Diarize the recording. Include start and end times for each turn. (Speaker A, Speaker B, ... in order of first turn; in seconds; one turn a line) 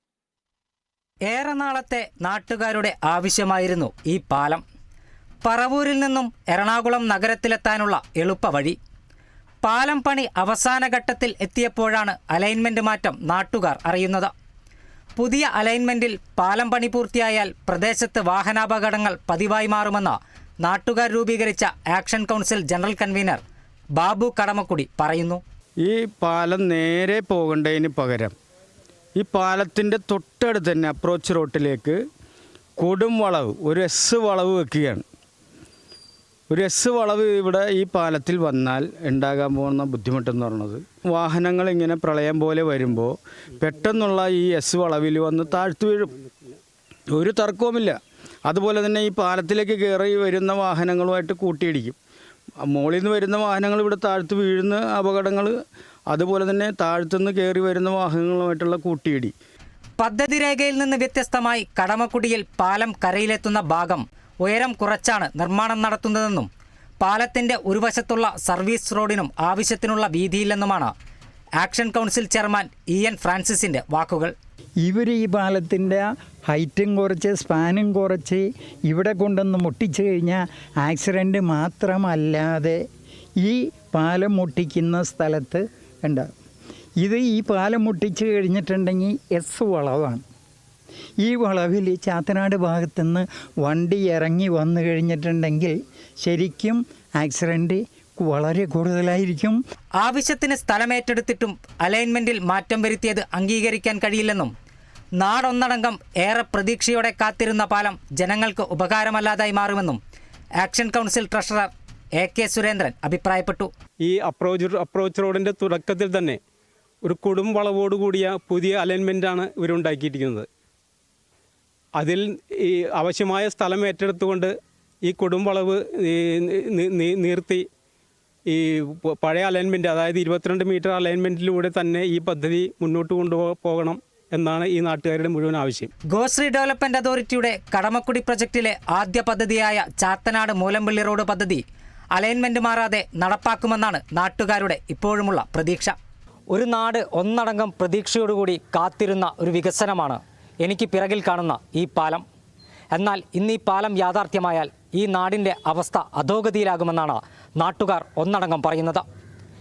Speaker A: 1.3-4.6
Speaker A: 5.4-8.8
Speaker A: 9.6-14.3
Speaker A: 15.2-23.4
Speaker A: 24.0-25.4
Speaker B: 25.8-28.3
Speaker B: 29.2-32.0
Speaker B: 32.8-35.0
Speaker B: 36.5-46.1
Speaker B: 47.1-52.0
Speaker B: 52.7-55.5
Speaker B: 56.1-59.3
Speaker A: 60.0-66.5
Speaker A: 67.0-70.9
Speaker A: 71.6-74.3
Speaker C: 74.8-82.8
Speaker C: 83.4-86.3
Speaker C: 87.0-90.2
Speaker C: 91.2-99.6
Speaker A: 100.0-104.5
Speaker A: 105.2-110.0
Speaker A: 110.6-113.7
Speaker D: 114.0-116.4
Speaker D: 117.0-120.5
Speaker D: 122.0-124.5
Speaker D: 125.1-127.6
Speaker D: 128.5-135.9
Speaker A: 136.1-141.6
Speaker A: 142.1-146.0
Speaker A: 146.5-152.2
Speaker A: 152.9-159.0